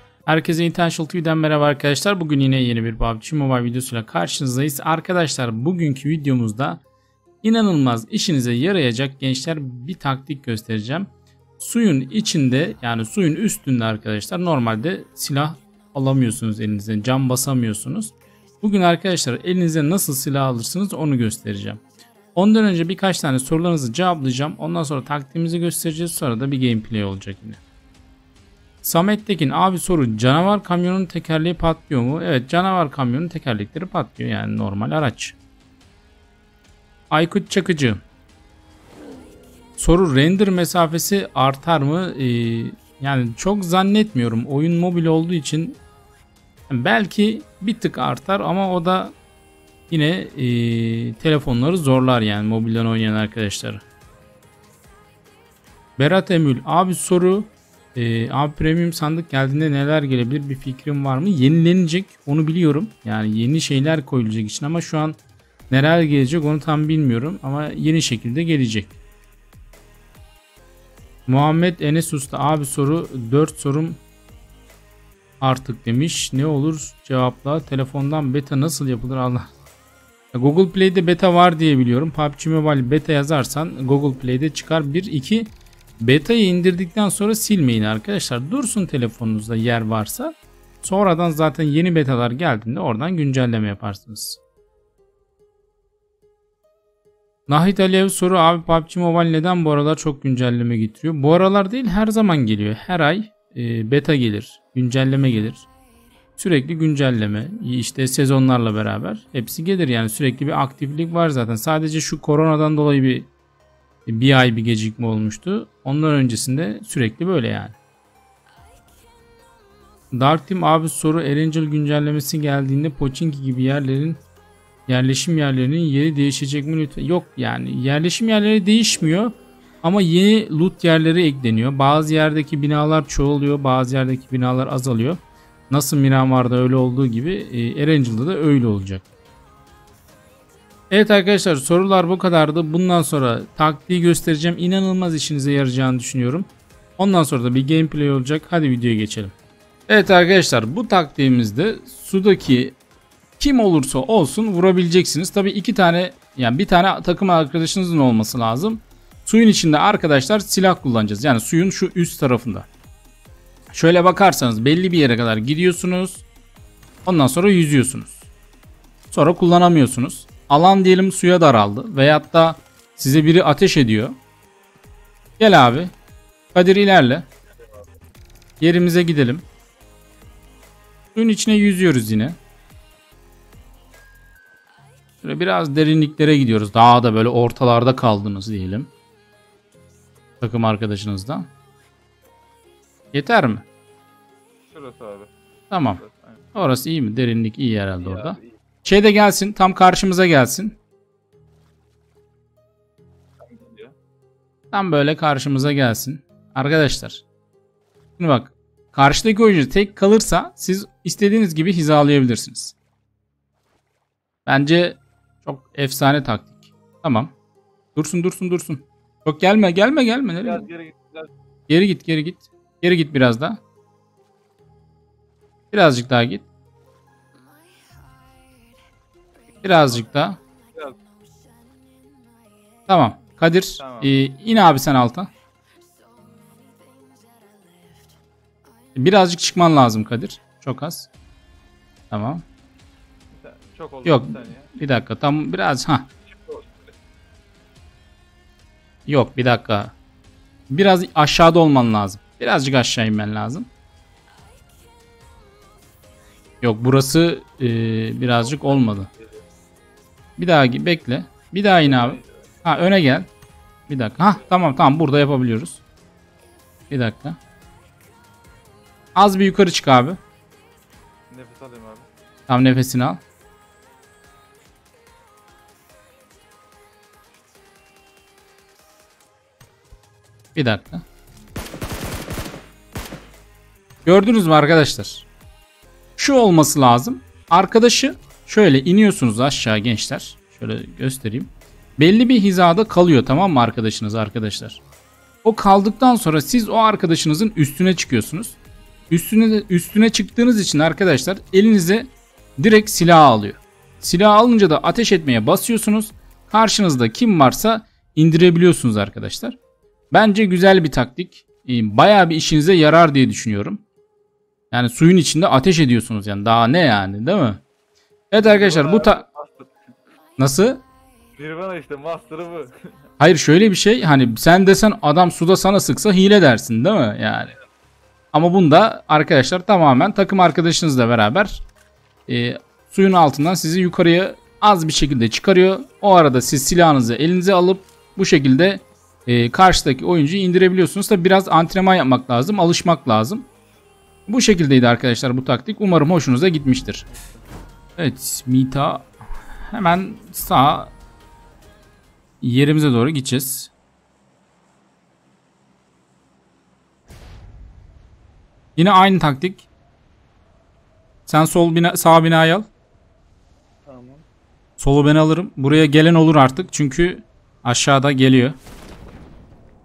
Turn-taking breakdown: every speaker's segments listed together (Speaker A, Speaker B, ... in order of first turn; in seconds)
Speaker A: 0.2-6.8, 7.4-21.8, 22.3-27.6, 28.8-35.4, 37.1-38.0, 39.8-45.8, 46.7-49.1, 49.9-53.8, 56.0-65.2, 65.7-68.9, 71.3-74.0, 75.4-79.5, 80.3-94.4, 97.5-105.7, 106.4-113.3, 114.1-117.8, 120.1-124.2, 124.9-139.0, 140.9-149.3, 149.9-152.7, 153.4-162.7, 163.7-166.2, 167.1-168.3, 169.1-174.2, 175.4-175.9, 176.5-177.3, 178.6-179.4, 181.1-182.4, 185.2-188.9, 190.4-191.5, 193.1-193.6, 195.7-196.0, 196.5-200.8, 204.7-207.2, 208.2-212.7, 214.4-217.3, 217.9-220.7, 221.7-223.6, 225.7-226.4, 229.6-230.4, 232.9-235.3, 238.9-241.1, 242.1-242.4, 244.0-246.1, 249.1-249.9, 250.7-253.7, 256.6-259.1, 260.4-263.3, 263.9-265.8, 266.9-267.4, 269.1-270.2, 272.5-273.2, 280.5-281.0, 284.0-285.3, 286.2-294.8, 295.4-298.6, 299.1-309.6, 310.1-313.8, 314.7-317.6, 318.3-319.2, 320.4-320.8, 323.2-327.5, 328.3-331.6, 332.3-343.5, 344.3-347.1, 348.0-349.1, 349.6-350.9, 352.4-353.7, 358.8-359.7, 361.3-362.7, 364.8-368.6
Speaker B: 194.6-195.3, 195.9-196.4, 198.0-198.6, 203.4-203.9, 220.4-221.3, 233.8-234.1, 243.3-244.7, 246.2-246.9, 258.4-259.3, 261.8-262.5, 271.3-272.1, 318.3-319.7, 321.3-323.0, 347.1-347.4, 363.9-364.2